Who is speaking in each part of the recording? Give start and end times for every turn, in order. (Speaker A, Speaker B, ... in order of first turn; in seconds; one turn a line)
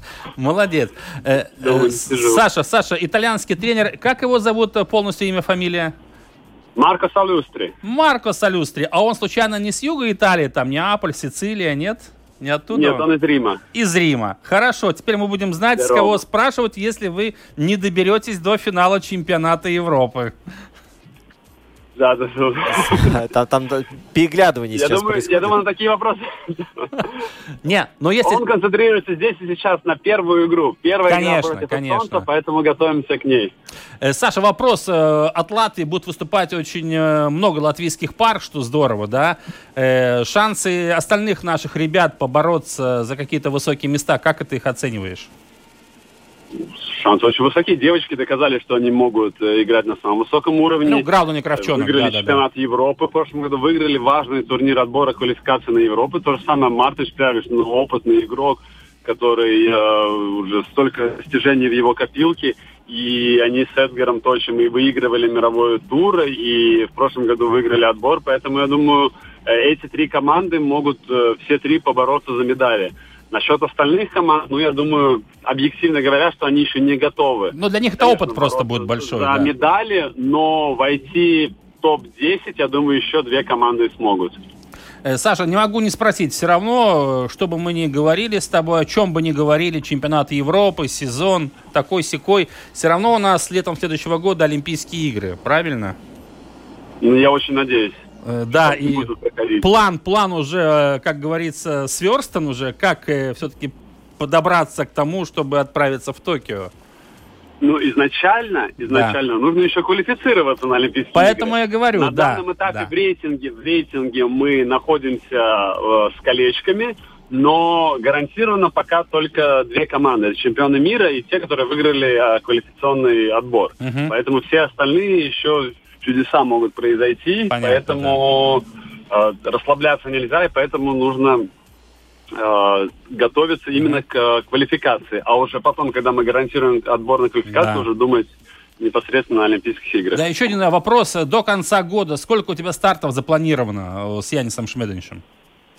Speaker A: 0.4-6.0
Speaker B: 1.6-2.4
Speaker B: 6.8-7.7
Speaker A: 7.8-13.1
Speaker B: 12.7-13.6
Speaker A: 13.7-20.3
Speaker B: 15.8-16.2
Speaker B: 22.0-23.1
Speaker C: 22.9-25.6
Speaker B: 24.7-26.9
Speaker A: 27.6-28.4
Speaker B: 28.2-33.5
Speaker A: 31.1-32.3
Speaker A: 34.0-45.3
Speaker B: 46.8-51.1
Speaker A: 50.8-52.4
Speaker B: 51.6-84.4
Speaker A: 77.5-79.5
Speaker A: 85.0-96.0
Speaker B: 97.0-99.7
Speaker A: 98.2-106.7
Speaker B: 107.6-131.5
Speaker A: 108.8-109.2
Speaker A: 111.2-112.9
Speaker A: 123.8-124.1
Speaker A: 127.5-128.2
Speaker B: 132.3-140.2
Speaker A: 133.8-134.0
Speaker A: 137.5-137.9
Speaker A: 140.1-145.2